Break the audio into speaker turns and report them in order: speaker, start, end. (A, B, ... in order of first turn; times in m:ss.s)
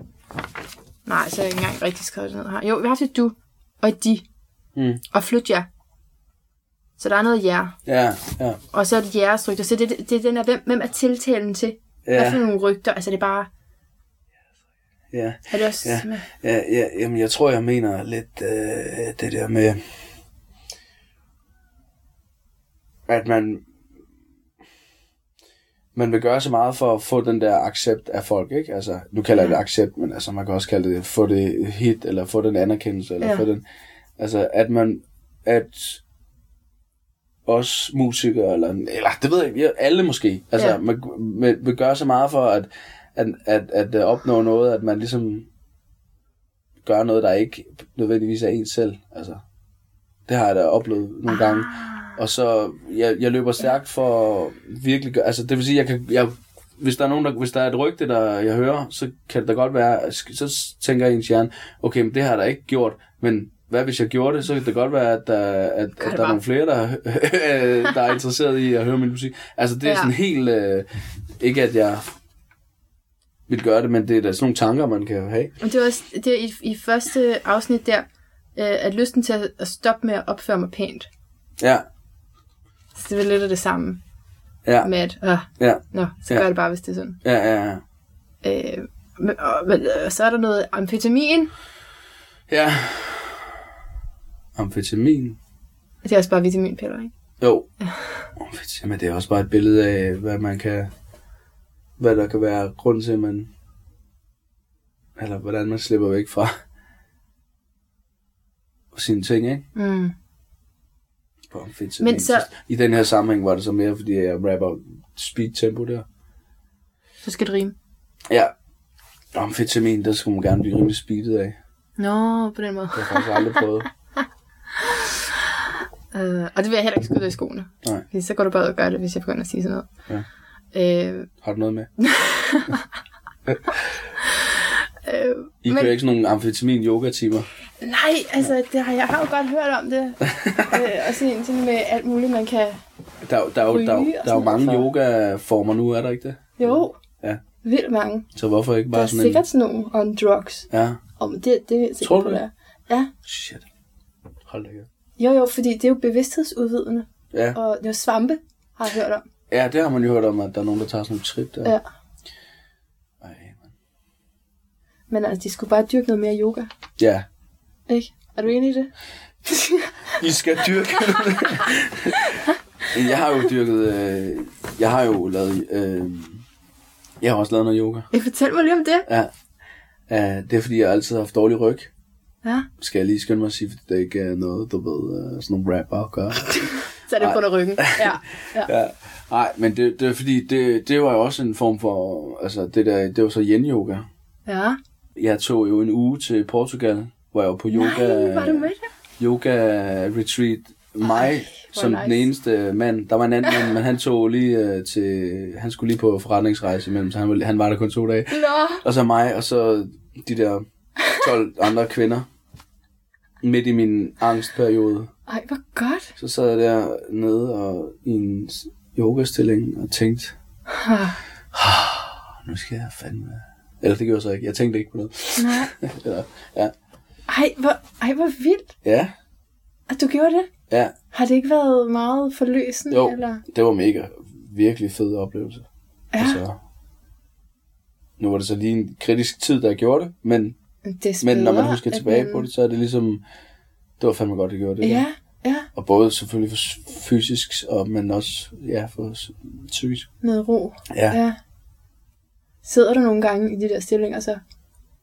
0:01.1-0:04.2 A
0:04.8-0:05.0 B
0:05.1-0:05.7 A
0:07.0-0:07.8 A
0:07.9-0:08.6 B
0:08.7-0:13.5 A
0:12.0-0:12.4 B
0:15.1-0:19.8 B
0:15.5-0:16.3 A
0:23.1-0:23.6 B
0:26.0-0:33.6 B
0:34.2-0:36.0 B
0:37.5-0:45.5 B
0:46.8-0:49.4 B
0:50.3-1:10.9 B
0:51.6-0:52.1 A
1:06.0-1:06.4 A
1:09.8-1:10.1 A
1:11.4-1:12.0 B
1:13.5-1:15.5 B
1:15.6-1:21.1 A
1:21.6-1:21.8 B
1:23.0-1:24.0 A
1:24.6-1:24.9 B
1:24.8-1:27.2 A
1:25.6-1:26.5 B
1:27.2-1:27.8 B
1:28.4-1:31.5 A
1:32.5-1:33.6 B
1:34.6-1:35.4 B
1:36.0-1:37.1 A
1:37.4-1:37.7 B
1:38.4-1:40.9 B
1:42.0-1:43.5 B
1:45.2-1:46.5 B
1:48.9-1:49.6 B
1:49.8-1:50.1 A
1:51.5-1:56.0 B
1:52.0-1:52.5 A
1:57.2-1:57.8 A
1:59.3-2:01.6 B
2:02.0-2:03.6 A
2:02.9-2:03.9 B
2:06.1-2:09.9 A
2:10.7-2:11.3 A
2:11.4-2:11.9 B
2:12.0-2:12.8 A
2:15.0-2:15.9 A
2:15.6-2:17.5 B
2:17.8-2:22.8 A
2:20.3-2:20.8 B
2:23.2-2:27.4 B
2:23.7-2:24.9 A
2:26.6-2:27.0 A
2:27.6-2:28.3 A
2:28.4-2:29.4 B
2:28.9-2:33.1 A
2:30.7-2:31.0 B
2:32.0-2:32.4 B
2:33.2-2:33.6 B
2:34.5-2:34.9 B
2:35.2-2:39.2 A
2:37.3-2:37.6 B
2:39.5-2:41.8 B
2:43.2-2:43.7 B
2:45.1-2:46.7 A
2:47.0-2:47.2 B
2:47.9-2:48.9 A
2:49.4-2:49.9 A
2:50.2-2:52.3 B
2:52.2-2:52.6 A
2:52.9-2:56.4 B
2:57.2-2:58.1 B
2:58.1-2:59.1 A
3:00.1-3:01.9 B
3:02.8-3:14.1 B
3:06.6-3:08.7 A
3:14.5-3:14.8 A
3:15.2-3:32.3 B
3:17.7-3:18.8 A
3:21.0-3:22.2 A
3:28.3-3:28.8 A
3:33.4-3:35.1 B
3:35.3-3:36.1 A
3:36.2-3:40.4 B
3:40.7-3:41.2 A
3:41.5-3:46.7 B
3:45.4-3:45.7 A
3:47.3-3:48.7 A
3:48.8-3:49.1 B
3:49.9-3:50.5 A
3:51.1-3:53.4 A
3:52.9-3:55.7 B
3:56.1-3:56.4 A
3:56.2-3:56.6 B
3:58.2-4:00.6 B
4:00.8-4:02.5 A
4:01.2-4:03.2 B
4:04.0-4:05.1 B
4:04.8-4:05.7 A
4:05.7-4:10.1 B
4:10.2-4:11.4 A
4:10.9-4:11.2 B
4:12.6-4:14.4 A